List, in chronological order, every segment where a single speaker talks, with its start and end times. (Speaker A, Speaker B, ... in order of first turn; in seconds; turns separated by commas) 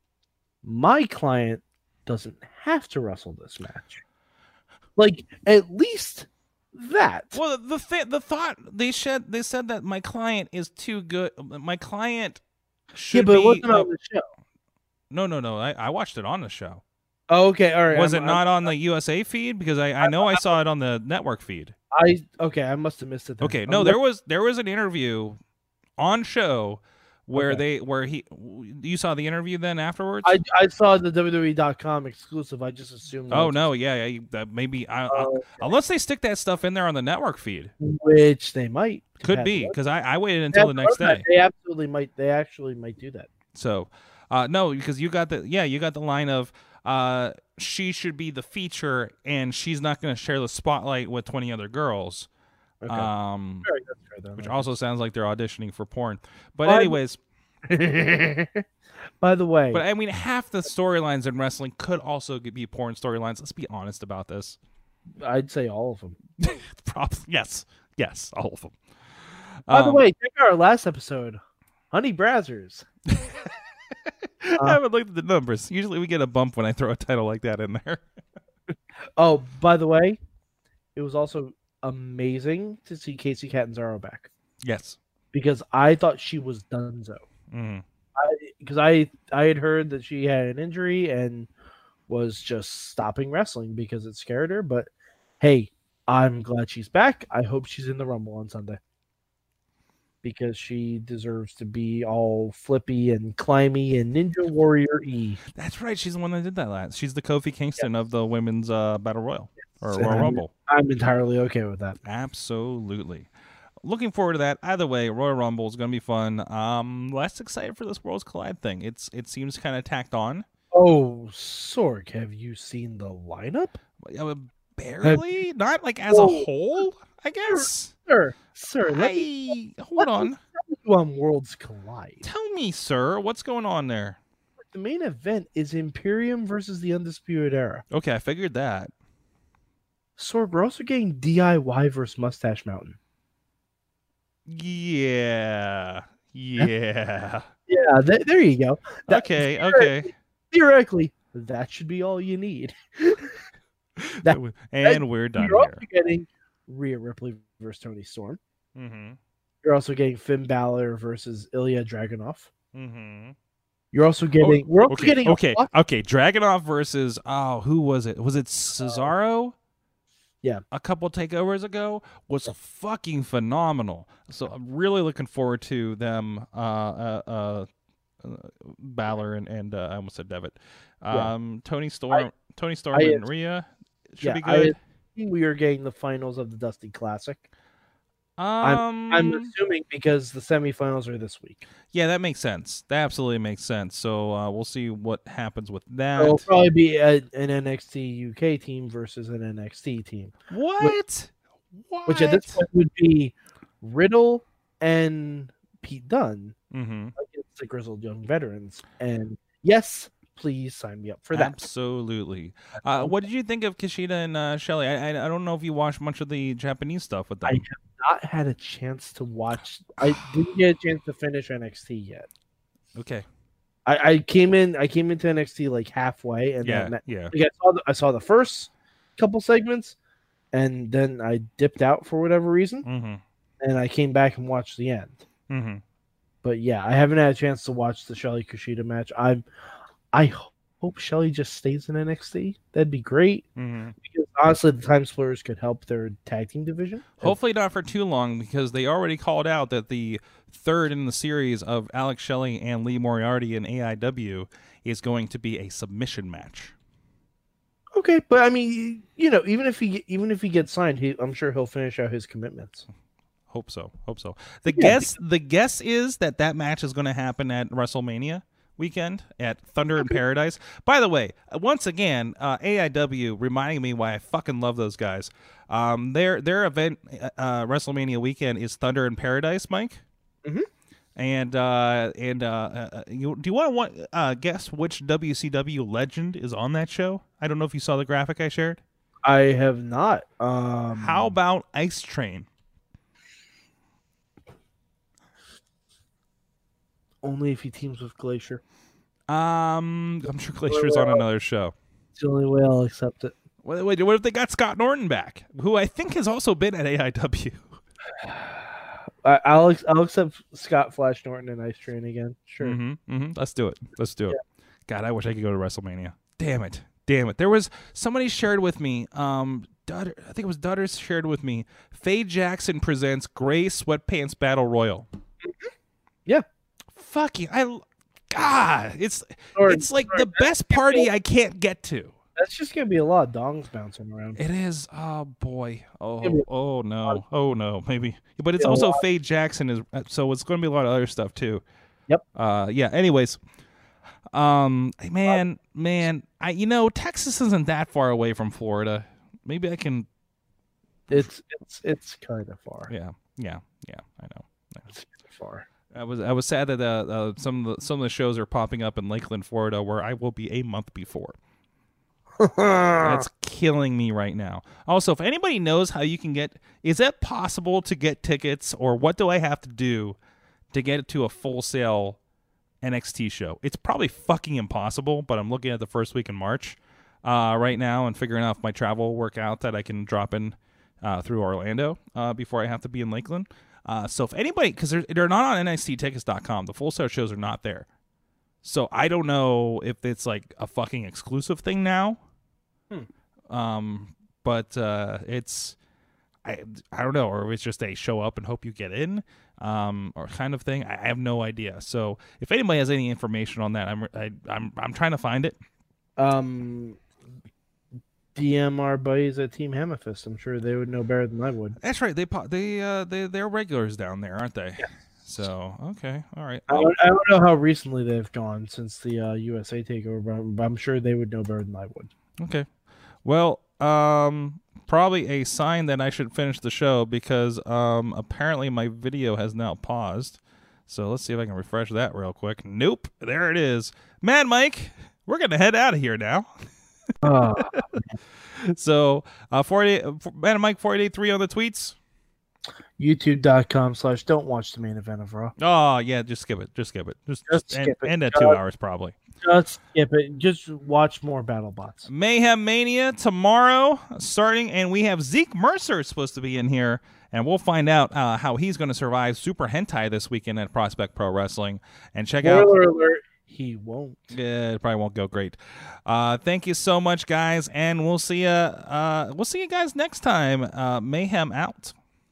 Speaker A: 0.6-4.0, Speaker A: 5.0-7.4, Speaker B: 7.3-12.4, Speaker B: 12.9-13.9, Speaker A: 13.1-14.2, Speaker B: 15.1-16.8, Speaker A: 17.3-18.7, Speaker B: 17.9-21.7, Speaker A: 20.0-20.4, Speaker A: 21.9-24.0, Speaker B: 23.4-25.4, Speaker B: 26.0-30.4, Speaker A: 27.4-27.6, Speaker A: 30.2-33.7, Speaker B: 33.3-37.7, Speaker A: 35.1-35.7, Speaker A: 37.8-39.8, Speaker B: 39.2-41.2, Speaker A: 40.5-43.3, Speaker B: 43.5-52.3, Speaker A: 52.8-53.1, Speaker B: 52.9-53.7, Speaker A: 53.6-54.7, Speaker B: 54.4-57.2, Speaker A: 56.6-57.0, Speaker A: 57.7-58.6, Speaker A: 59.2-59.8, Speaker B: 59.7-64.6, Speaker A: 65.2-66.2, Speaker B: 66.4-68.7, Speaker B: 69.7-70.0, Speaker A: 69.7-71.4, Speaker A: 71.9-72.8, Speaker B: 73.1-73.5, Speaker B: 74.0-78.0, Speaker A: 79.2-80.2, Speaker A: 80.9-84.3, Speaker B: 84.6-85.0, Speaker A: 85.3-87.2, Speaker B: 87.5-87.8, Speaker A: 88.2-91.5, Speaker A: 92.1-98.8, Speaker A: 100.2-105.4, Speaker B: 105.5-110.5, Speaker A: 109.8-112.0, Speaker B: 112.0-113.3, Speaker B: 113.8-120.5, Speaker A: 120.7-123.8, Speaker B: 124.0-127.9, Speaker A: 126.1-126.5, Speaker A: 127.4-129.3, Speaker B: 128.8-130.4, Speaker A: 130.0-132.2, Speaker B: 132.2-134.2, Speaker A: 134.7-137.8, Speaker B: 137.9-138.9, Speaker A: 140.2-143.0, Speaker B: 144.4-147.5, Speaker A: 147.7-153.4, Speaker B: 149.1-150.1, Speaker B: 154.0-155.8, Speaker A: 154.2-158.4, Speaker B: 158.8-159.2, Speaker A: 159.6-162.5, Speaker B: 162.7-163.3, Speaker A: 163.9-165.7, Speaker B: 164.4-169.5, Speaker A: 168.8-169.1, Speaker B: 170.7-177.7, Speaker B: 178.2-184.8, Speaker A: 182.9-183.2, Speaker A: 184.2-187.4, Speaker B: 188.4-189.5, Speaker A: 188.6-191.6, Speaker B: 191.9-196.4, Speaker A: 196.2-201.0, Speaker B: 200.5-202.6, Speaker A: 202.1-206.6, Speaker B: 206.7-207.1, Speaker A: 207.2-211.6, Speaker B: 211.3-217.6, Speaker A: 217.4-222.3, Speaker B: 222.9-223.2, Speaker A: 223.8-229.9, Speaker B: 226.6-227.3, Speaker A: 230.5-232.8, Speaker B: 232.8-233.2, Speaker A: 233.6-235.2, Speaker B: 235.5-235.8, Speaker A: 236.4-239.4, Speaker A: 240.1-243.4, Speaker B: 243.6-243.9, Speaker A: 244.0-247.3, Speaker B: 247.2-256.7, Speaker A: 257.9-262.9, Speaker B: 263.5-280.0, Speaker A: 264.7-265.0, Speaker B: 281.1-288.8, Speaker A: 289.2-291.3, Speaker B: 290.9-292.5, Speaker A: 297.2-298.6, Speaker B: 299.3-301.7, Speaker A: 300.7-301.2, Speaker A: 302.1-303.3, Speaker B: 303.6-307.8, Speaker A: 308.2-312.8, Speaker B: 312.6-325.1, Speaker A: 325.4-325.7, Speaker B: 326.9-332.1, Speaker A: 329.5-331.1, Speaker A: 332.4-334.4, Speaker B: 334.4-341.6, Speaker A: 338.6-339.0, Speaker B: 342.3-343.4, Speaker B: 344.3-350.1, Speaker A: 351.1-352.9, Speaker B: 352.9-354.9, Speaker A: 354.9-355.6, Speaker B: 355.9-361.4, Speaker A: 362.4-363.2, Speaker B: 363.0-370.2, Speaker B: 370.7-372.2, Speaker B: 372.8-387.9, Speaker B: 388.6-392.2, Speaker B: 393.5-395.8, Speaker B: 396.4-405.6, Speaker A: 406.2-407.0, Speaker A: 408.3-411.8, Speaker B: 411.8-416.9, Speaker A: 416.7-422.1, Speaker B: 422.4-422.7, Speaker B: 423.2-436.5, Speaker A: 437.2-438.1, Speaker B: 437.2-437.8, Speaker B: 438.5-441.9, Speaker A: 443.0-445.5, Speaker B: 445.6-449.1, Speaker A: 447.5-448.6, Speaker A: 449.4-452.1, Speaker B: 452.1-462.7, Speaker A: 462.4-464.3, Speaker B: 464.3-471.9